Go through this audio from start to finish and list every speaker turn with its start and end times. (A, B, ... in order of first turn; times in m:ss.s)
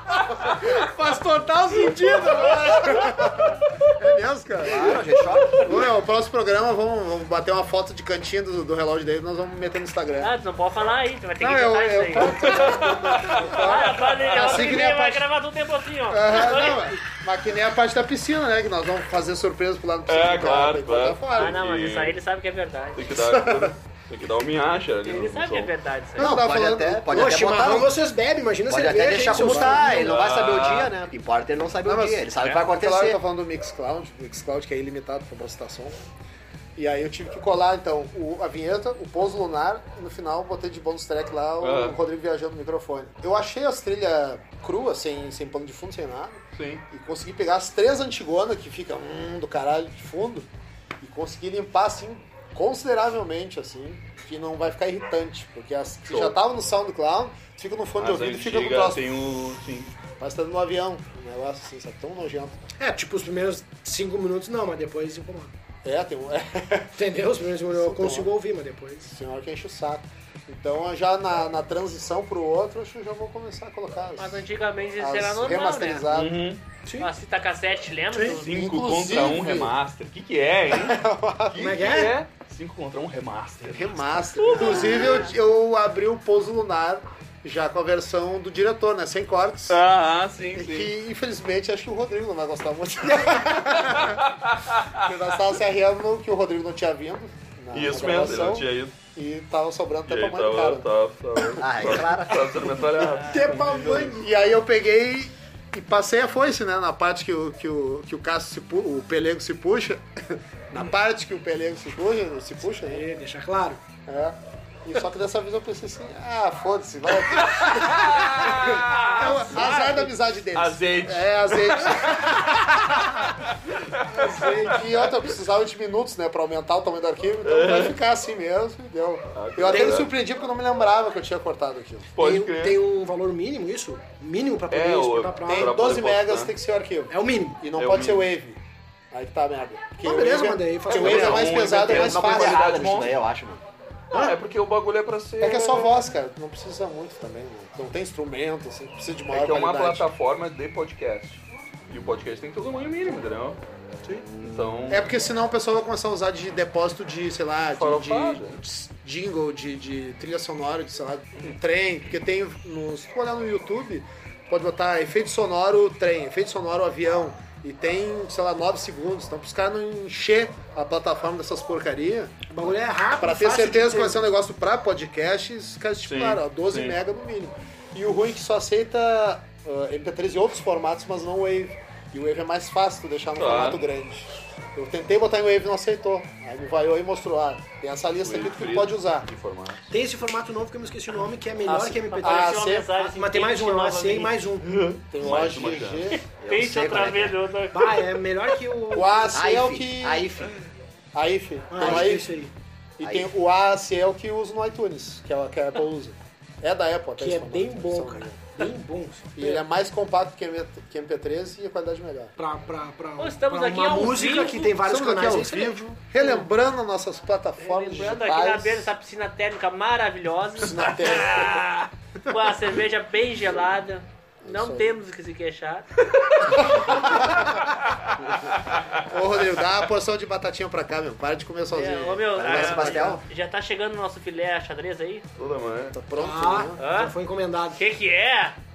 0:00.3-0:10.3 A
0:01.9-0:02.5 B
0:04.6-0:05.8 C
0:10.2-0:17.0 D
0:11.4-0:15.3 A
0:12.5-0:14.6 E
0:16.1-0:21.6 A
0:20.1-0:22.2 E
0:21.4-0:23.1 D
0:23.0-0:25.7 E
0:23.2-0:23.7 A
0:25.0-0:26.4 D
0:26.2-0:27.1 A
0:26.2-0:27.9 C
0:27.1-0:30.1 B
0:28.7-0:33.2 C
0:29.6-0:30.9 E
0:31.8-0:36.0 A
0:36.8-0:50.5 A
0:41.6-0:42.0 E
0:46.6-0:46.8 E
0:51.0-0:59.1 A
0:56.1-0:56.4 E
0:58.0-0:59.9 E
1:00.2-1:02.6 A
1:02.8-1:05.5 B
1:05.8-1:07.0 A
1:07.0-1:09.1 B
1:07.7-1:08.3 A
1:09.0-1:14.4 A
1:14.2-1:16.1 D
1:15.0-1:16.4 A
1:16.1-1:16.6 E
1:16.8-1:17.1 B
1:17.0-1:18.5 D
1:18.1-1:18.4 B
1:18.4-1:25.1 E
1:18.5-1:19.8 A
1:20.7-1:21.8 A
1:21.6-1:22.2 B
1:23.7-1:29.8 A
1:24.4-1:25.3 D
1:29.7-1:30.9 E
1:30.6-1:34.2 A
1:33.8-1:35.1 E
1:34.9-1:40.9 A
1:37.7-1:39.0 E
1:40.1-1:44.2 E
1:41.6-1:42.5 C
1:43.1-1:44.3 B
1:44.0-1:53.0 A
1:52.7-1:53.8 B
1:54.1-2:03.4 A
1:57.3-1:59.8 E
1:59.1-2:00.1 B
2:00.5-2:05.1 E
2:04.1-2:12.1 A
2:04.1-2:04.8 B
2:07.4-2:08.0 E
2:09.3-2:10.1 E
2:09.7-2:10.0 B
2:12.2-2:12.8 E
2:12.2-2:15.8 B
2:14.7-2:16.5 E
2:15.5-2:18.6 A
2:17.1-2:17.6 B
2:17.8-2:18.3 E
2:19.1-2:22.7 A
2:20.0-2:21.8 B
2:20.9-2:23.1 E
2:21.0-2:23.6 C
2:24.1-2:26.0 E
2:25.4-2:30.1 A
2:29.3-2:33.6 E
2:34.0-2:34.3 B
2:34.3-2:35.1 E
2:34.9-2:52.3 A
2:37.7-2:38.6 E
2:52.5-2:54.2 B
2:53.2-3:09.3 A
2:56.1-2:57.0 E
3:03.4-3:03.8 E
3:08.2-3:09.9 E
3:09.9-3:14.7 B
3:11.7-3:12.9 A
3:12.0-3:14.4 D
3:14.6-3:16.1 E
3:15.1-3:16.2 A
3:16.1-3:18.2 D
3:16.4-3:17.4 C
3:17.7-3:19.3 B
3:18.9-3:20.5 A
3:19.3-3:20.5 C
3:21.1-3:22.3 A
3:21.7-3:22.5 B
3:23.0-3:28.5 A
3:23.0-3:23.3 C
3:27.2-3:29.5 B
3:29.4-3:32.3 A
3:32.4-3:35.8 B
3:33.2-3:34.8 D
3:34.8-3:38.9 A
3:37.6-3:45.9 D
3:40.6-3:41.6 A
3:44.4-3:45.0 A
3:46.2-3:49.0 E
3:46.5-3:47.7 A
3:49.1-3:53.2 A
3:51.7-3:55.3 D
3:52.4-3:53.2 C
3:55.4-3:56.0 E
3:55.9-3:56.8 A
3:56.2-3:57.8 B
3:56.8-3:57.1 D
3:57.8-3:58.6 D